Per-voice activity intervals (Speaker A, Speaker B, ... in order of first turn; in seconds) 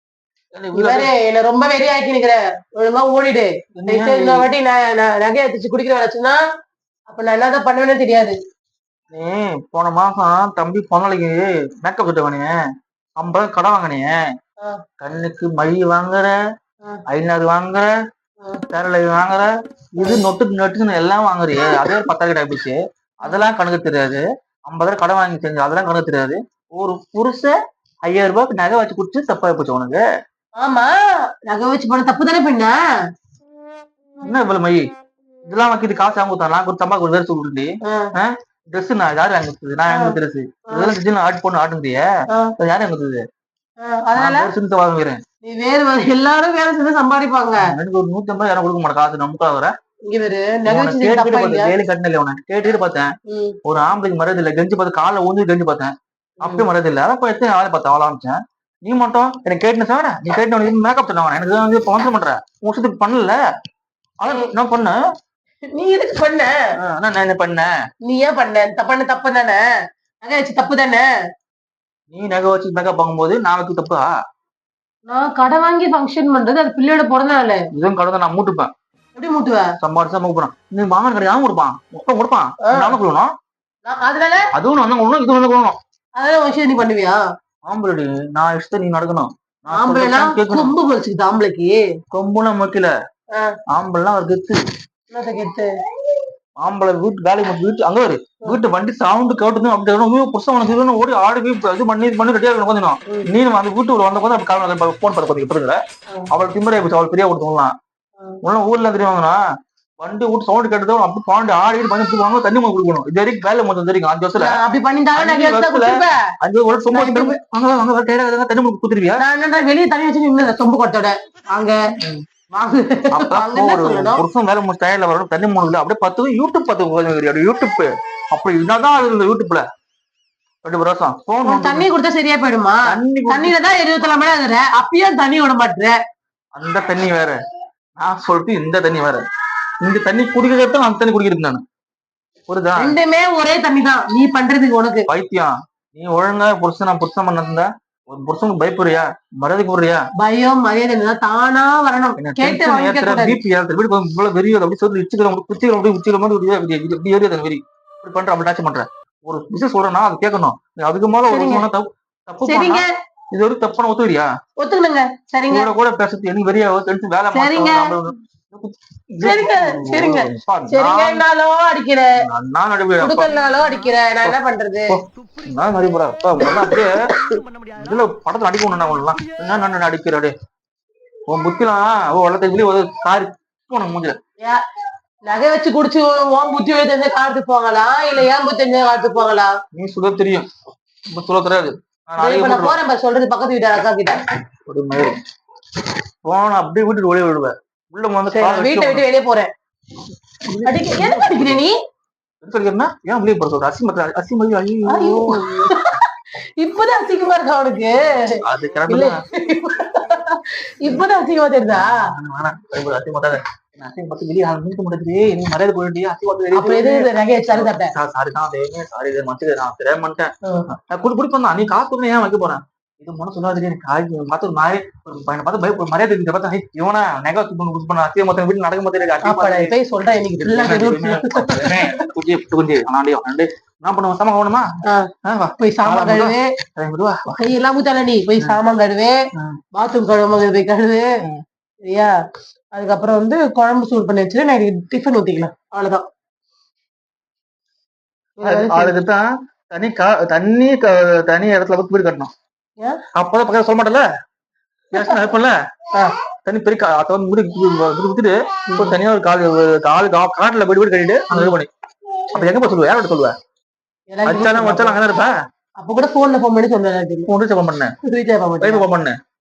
Speaker A: 0.5-1.1, 3.8-4.5, 9.1-12.5, 13.2-14.2, 15.0-16.4, 17.1-17.9, 18.7-30.0, 34.2-34.8, 35.5-42.0, 42.6-43.2, 44.1-45.2, 47.6-49.7, 50.7-53.1, 53.6-63.4, 64.2-65.0, 66.8-67.7, 72.1-74.1, 77.7-78.7, 79.8-83.3, 84.5-85.7, 87.7-90.7, 92.1-92.9, 93.7-94.6, 96.6-105.8, 106.3-107.7, 108.4-109.4, 110.0-114.6, 115.2-119.2, 122.0-122.2, 123.1-129.6, 130.6-131.9, 132.9-133.5, 136.6-137.4, 138.0-139.2, 139.8-141.6, 142.5-142.9, 145.1-150.0, 152.2-164.3, 165.5-171.2, 172.2-173.3, 174.9-177.0, 177.8-180.3, 181.3-184.1, 189.7-190.5, 191.1-192.8, 194.7-195.2, 196.2-199.0, 200.4-201.6, 202.4-205.7, 208.4-209.2, 211.7-229.7, 230.4-234.6, 235.2-237.4, 248.4-252.3, 253.1-254.0, 254.9-255.5, 256.4-261.7, 262.3-263.3, 264.2-265.3, 267.3-267.9, 268.6-269.1
Speaker B: 0.7-6.4, 7.1-8.3, 23.2-23.5, 30.6-30.9, 31.5-32.8, 37.8-38.1, 39.9-40.1, 43.8-44.5, 45.4-47.7, 50.1-51.7, 53.3-53.6, 56.4-56.7, 65.7-66.5, 68.1-69.6, 70.2-71.1, 75.1-77.6, 79.2-79.6, 82.6-82.9, 83.8-84.5, 86.2-87.2, 89.7-91.8, 95.1-95.7, 114.4-116.2, 116.9-117.3, 119.2-121.8, 122.5-124.2, 131.4-135.9, 142.8-145.1, 150.2-153.4, 161.3-161.7, 162.4-162.9, 164.6-165.7, 167.3-167.9, 169.2-172.1, 173.0-174.9, 176.4-177.3, 185.3-189.5, 192.2-194.2, 198.3-199.5, 200.7-201.7, 204.9-206.0, 206.6-212.0, 216.5-217.9, 229.2-232.0, 234.9-236.5, 237.4-239.1, 239.7-241.1, 241.9-242.1, 242.7-246.0, 248.4-249.0, 254.9-255.2, 258.7-259.0, 264.1-265.0, 265.8-267.3, 268.0-268.9